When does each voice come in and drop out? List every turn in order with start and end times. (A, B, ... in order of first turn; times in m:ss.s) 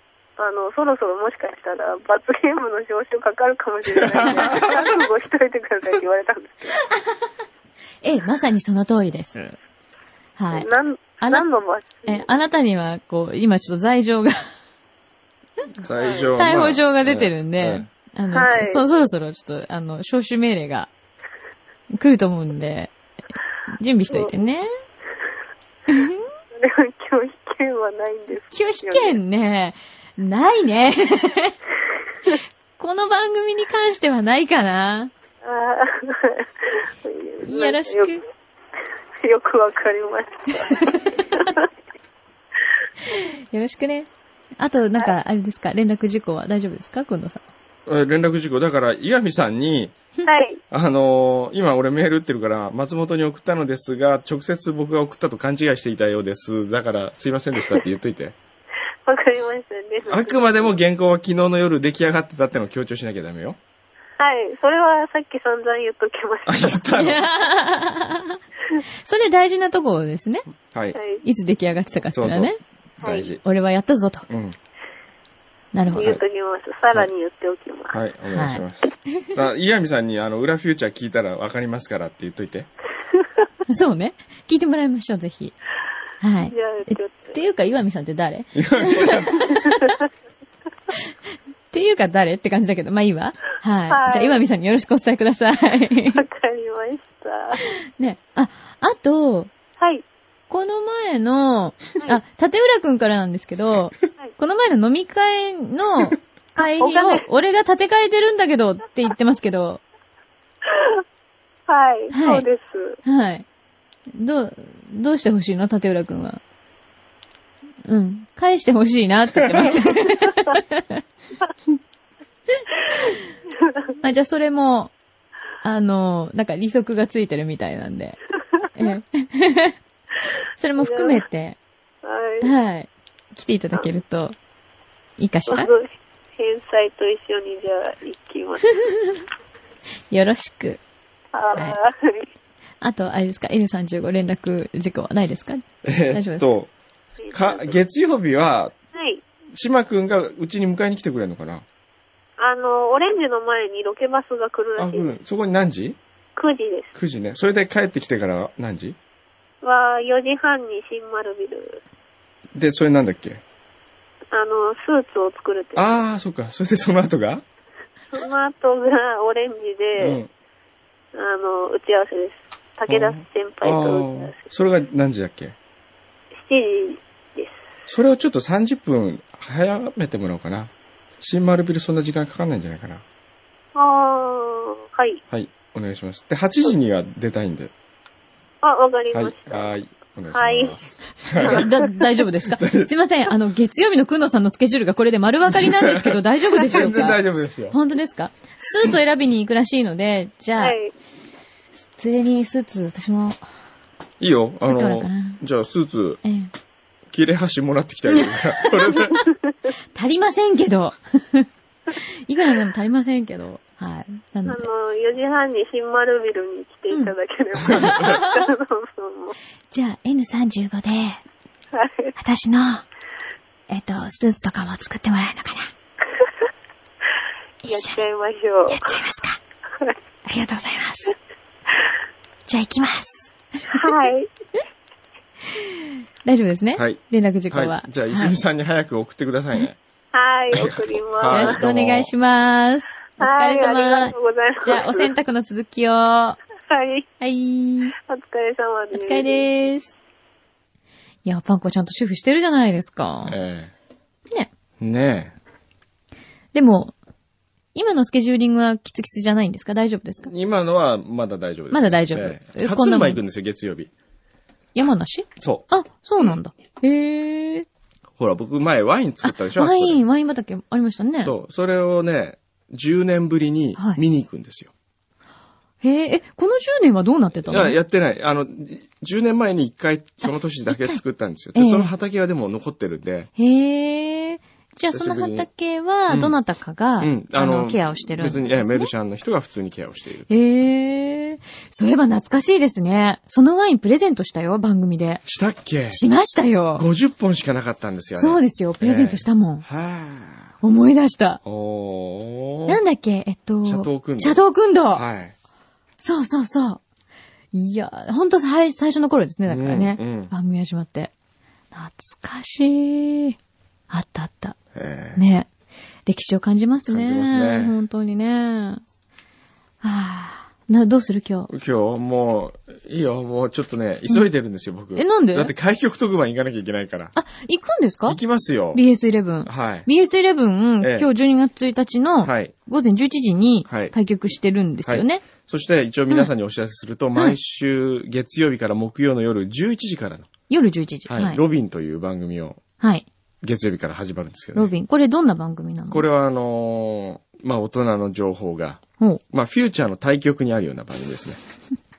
0:00.4-0:06.8 A
0:03.9-0:05.0 B
0:04.3-0:04.7 C
0:06.9-0:07.2 C
0:08.0-0:09.6 C
0:10.4-0:11.5 C
0:10.5-0:12.3 A
0:12.0-0:14.4 C
0:15.8-0:17.9 B
0:16.0-0:16.3 A
0:16.4-0:20.9 C
0:18.3-0:18.8 A
0:21.9-0:22.9 C
0:23.8-0:24.7 C
0:25.9-0:26.3 C
0:26.6-0:29.2 A
0:28.5-0:31.6 C
0:32.8-0:35.1 C
0:35.4-0:38.2 A
0:37.4-0:38.2 C
0:39.2-0:41.7 A
0:40.5-0:41.5 C
0:43.0-0:47.4 C
0:47.9-0:50.0 B
0:50.3-0:50.6 A
0:50.7-0:58.4 B
0:59.0-1:00.7 A
1:00.1-1:03.6 B
1:04.2-1:06.9 A
1:06.5-1:07.2 B
1:06.9-1:08.4 C
1:09.0-1:10.4 C
1:10.7-1:11.0 B
1:11.0-1:11.2 A
1:11.2-1:12.6 C
1:12.1-1:13.4 B
1:13.0-1:13.3 A
1:13.4-1:14.3 C
1:14.3-1:14.6 B
1:15.7-1:16.2 C
1:15.9-1:18.0 A
1:17.9-1:22.7 B
1:18.3-1:18.6 C
1:23.7-1:25.6 C
1:26.2-1:30.0 C
1:26.5-1:27.4 A
1:28.6-1:29.4 B
1:29.6-1:30.0 A
1:31.7-1:36.2 C
1:33.9-1:34.5 A
1:36.1-1:37.6 A
1:37.7-1:39.5 C
1:39.8-1:40.0 A
1:40.5-1:49.8 C
1:46.8-1:47.2 A
1:50.7-1:51.0 A
1:51.7-1:53.0 A
1:52.1-1:52.5 C
1:53.0-1:53.5 C
1:54.1-1:56.4 C
1:57.9-2:01.0 C
2:03.6-2:03.9 A
2:04.0-2:04.9 C
2:05.6-2:08.2 C
2:08.8-2:09.8 C
2:10.6-2:11.6 C
2:10.8-2:11.2 A
2:12.0-2:12.5 A
2:12.4-2:14.4 C
2:15.2-2:15.7 C
2:15.5-2:18.8 A
2:18.8-2:19.2 C
2:20.1-2:20.8 C
2:21.3-2:22.3 A
2:22.8-2:26.5 C
2:25.8-2:26.7 B
2:27.2-2:27.8 A
2:27.3-2:28.8 B
2:29.0-2:29.2 A
2:29.5-2:31.6 B
2:32.4-2:35.1 A
2:34.8-2:36.0 B
2:36.4-2:36.9 A
2:37.0-2:39.0 B
2:39.6-2:41.8 A
2:42.6-2:43.4 B
2:44.3-2:46.0 A
2:45.8-2:47.4 B
2:48.1-2:50.2 A
2:50.0-2:50.3 B
2:51.1-2:54.4 A
2:52.9-2:55.6 B
2:56.4-2:57.6 A
2:57.9-3:03.0 B
3:03.8-3:05.2 A
3:05.3-3:07.7 B
3:08.6-3:09.7 A
3:09.1-3:11.7 B
3:10.3-3:10.8 A
3:11.4-3:20.8 C
3:11.4-3:11.7 A
3:12.4-3:12.9 B
3:15.5-3:17.8 B
3:20.6-3:20.9 A
3:22.0-3:23.4 C
3:24.2-3:26.2 B
3:24.6-3:25.4 C
3:26.2-3:26.5 C
3:27.1-3:29.3 B
3:28.1-3:29.0 C
3:30.0-3:34.7 C
3:34.5-3:39.4 A
3:37.6-3:38.2 B
3:37.7-3:38.5 C
3:39.7-3:41.2 C
3:41.7-3:42.1 A
3:42.2-3:42.9 C
3:43.7-3:45.7 C
3:47.6-3:48.0 C
3:47.7-3:48.9 A
3:48.7-3:49.4 C
3:50.3-3:51.1 C
3:52.5-3:53.9 C
3:53.7-3:54.3 A
3:55.5-3:58.4 C
3:57.5-3:59.8 B
4:00.1-4:01.6 A
4:00.5-4:02.1 B
4:01.3-4:06.4 C
4:03.2-4:05.1 A
4:06.7-4:07.1 A
4:07.2-4:08.0 C
4:08.0-4:09.4 A
4:08.9-4:09.9 C
4:11.2-4:13.4 C
4:13.3-4:13.7 B
4:14.8-4:15.3 B
4:16.5-4:16.9 C
4:17.8-4:20.3 C
4:20.3-4:23.9 B
4:21.7-4:23.2 C
4:24.8-4:27.7 C
4:25.4-4:25.7 B
4:28.2-4:30.0 B
4:29.2-4:31.3 C
4:31.2-4:34.7 B
4:33.8-4:34.0 C
4:35.8-4:37.8 C
4:37.5-4:43.3 B
4:40.2-4:41.0 C
4:41.6-4:41.9 C
4:43.4-4:48.9 C
4:44.9-4:45.5 B
4:46.1-4:46.3 B
4:47.0-4:50.3 B
4:50.3-4:55.2 C
4:55.3-4:56.0 B
4:55.9-4:56.9 C
4:56.8-5:00.5 B
4:58.2-4:59.6 C
5:00.6-5:01.4 C
5:01.4-5:02.8 B
5:02.7-5:05.1 C
5:03.6-5:04.4 B
5:04.9-5:05.3 B
5:06.0-5:06.8 C
5:07.5-5:11.1 C
5:09.5-5:10.3 B
5:11.7-5:13.4 C
5:13.9-5:14.6 C
5:14.7-5:15.2 B
5:15.2-5:15.5 C
5:16.1-5:18.8 C
5:16.9-5:17.8 B
5:19.8-5:21.5 C
5:21.5-5:27.1 B
5:25.0-5:25.5 C
5:27.2-5:28.2 C
5:28.1-5:28.8 B
5:28.7-5:35.2 C
5:29.5-5:29.9 B
5:30.8-5:31.1 B
5:32.2-5:32.5 B
5:33.7-5:33.9 B
5:34.8-5:40.3 B
5:40.5-5:41.4 C
5:41.1-5:42.6 B
5:42.8-5:43.1 C
5:43.4-5:44.7 B
5:44.5-5:46.0 C
5:45.9-5:48.8 B
5:49.3-5:51.4 B